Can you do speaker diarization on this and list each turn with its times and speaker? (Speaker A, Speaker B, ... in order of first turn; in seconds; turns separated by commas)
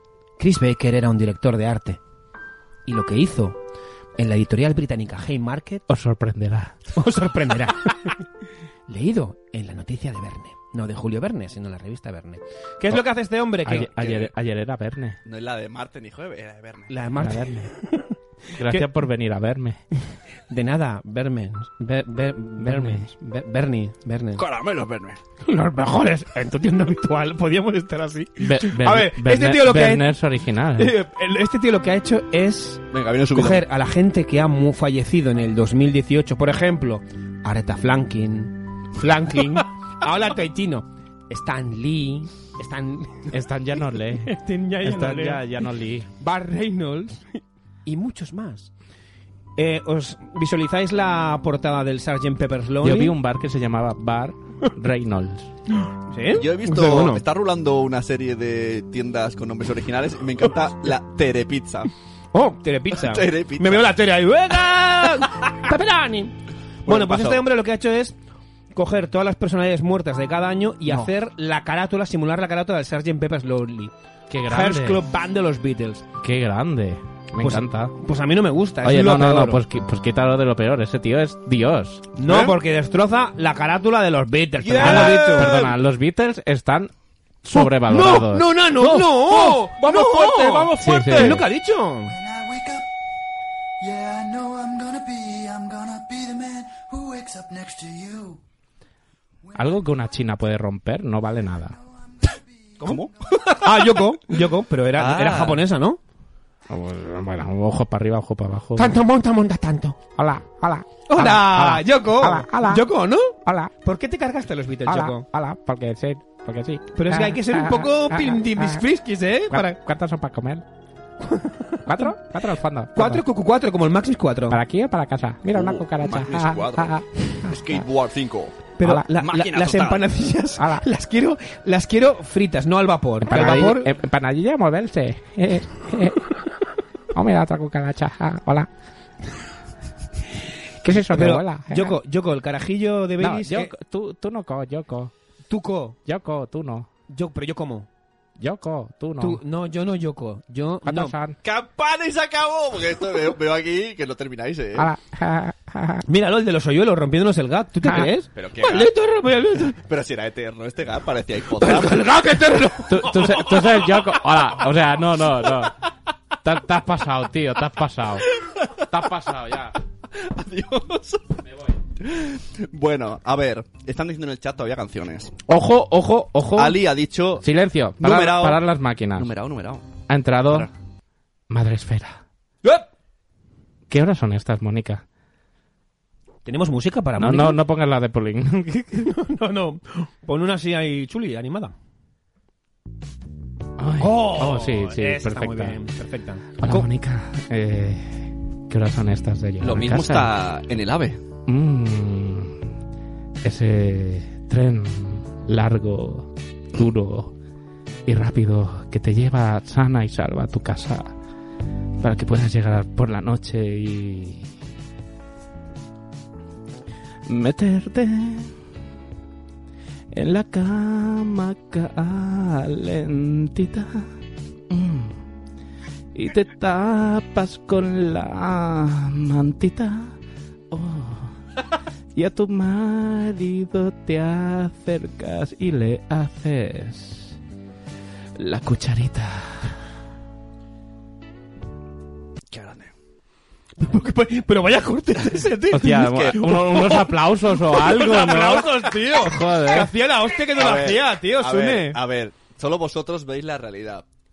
Speaker A: 0.4-2.0, Speaker A: 2.9-3.6, Speaker A: 4.2-5.8, Speaker B: 5.9-6.8, Speaker A: 7.0-8.2, Speaker A: 8.9-13.9, Speaker B: 13.7-15.2, Speaker C: 14.0-14.3, Speaker C: 15.2-17.0, Speaker A: 16.9-18.9, Speaker B: 17.2-17.7, Speaker B: 18.6-19.8, Speaker A: 20.5-24.4, Speaker B: 22.6-23.1, Speaker C: 24.4-25.2, Speaker A: 25.4-30.1, Speaker B: 28.4-31.0, Speaker A: 30.8-43.3, Speaker C: 32.9-33.6, Speaker B: 43.3-46.1, Speaker A: 44.3-45.7, Speaker A: 46.2-48.7, Speaker A: 49.6-53.2, Speaker B: 52.8-55.5, Speaker A: 56.1-57.2, Speaker C: 56.3-61.9, Speaker A: 62.3-68.2, Speaker C: 63.0-63.9, Speaker C: 66.9-67.4, Speaker A: 68.8-73.9, Speaker B: 74.3-75.0, Speaker A: 74.5-76.1, Speaker B: 76.2-77.9, Speaker A: 77.4-79.6, Speaker B: 78.8-82.1, Speaker A: 82.2-85.7, Speaker C: 82.2-82.5, Speaker C: 84.6-85.8, Speaker B: 84.8-86.9, Speaker B: 87.4-88.9, Speaker A: 87.5-92.2, Speaker C: 88.8-91.4, Speaker B: 90.8-91.4, Speaker D: 92.0-92.9, Speaker D: 93.8-98.4, Speaker D: 99.5-99.8, Speaker B: 99.6-101.8, Speaker D: 101.7-102.8, Speaker C: 102.8-104.0, Speaker A: 103.6-106.0, Speaker C: 105.0-105.6, Speaker B: 106.7-109.0, Speaker A: 108.8-110.0, Speaker B: 110.2-112.9, Speaker A: 111.1-115.2, Speaker B: 113.5-113.7, Speaker B: 114.9-118.8, Speaker A: 117.0-119.8, Speaker B: 119.5-120.6, Speaker A: 121.3-122.1, Speaker B: 121.9-123.2, Speaker A: 123.0-124.6, Speaker B: 124.5-127.8, Speaker C: 125.5-130.1, Speaker A: 128.8-133.9, Speaker B: 130.6-130.8, Speaker B: 133.2-136.2, Speaker B: 137.1-138.7, Speaker B: 140.8-142.0, Speaker A: 141.1-143.7, Speaker B: 143.2-145.1, Speaker A: 145.5-146.0, Speaker B: 146.1-146.9, Speaker A: 147.1-147.9, Speaker B: 148.4-149.4, Speaker A: 149.2-151.2, Speaker B: 150.8-151.4, Speaker C: 151.4-154.9, Speaker B: 154.8-156.0, Speaker A: 156.1-159.8, Speaker B: 157.8-158.1, Speaker C: 158.3-158.9, Speaker C: 159.8-162.1, Speaker A: 161.6-163.6, Speaker B: 162.9-165.7, Speaker B: 166.4-168.3, Speaker B: 168.9-169.8, Speaker C: 170.1-171.4, Speaker B: 171.5-171.8, Speaker C: 172.0-175.3, Speaker B: 175.5-176.8, Speaker C: 176.6-177.5, Speaker B: 177.4-179.3, Speaker C: 178.0-180.7, Speaker B: 180.1-180.7, Speaker B: 181.5-182.2, Speaker B: 183.9-185.0, Speaker A: 186.5-187.6, Speaker B: 187.2-189.1, Speaker A: 189.0-191.7, Speaker B: 193.8-195.8, Speaker A: 194.0-196.9, Speaker B: 196.6-200.3, Speaker C: 199.6-201.2, Speaker B: 201.5-202.6, Speaker B: 203.4-207.3, Speaker B: 208.1-211.1, Speaker B: 212.0-214.5, Speaker B: 217.3-218.5, Speaker B: 220.1-224.1, Speaker B: 224.7-225.1, Speaker B: 226.1-230.1, Speaker B: 230.7-231.3, Speaker B: 232.2-237.3, Speaker B: 238.4-239.8, Speaker C: 242.5-242.9, Speaker A: 243.8-252.0, Speaker C: 245.2-246.9, Speaker B: 245.7-249.9, Speaker C: 250.5-254.1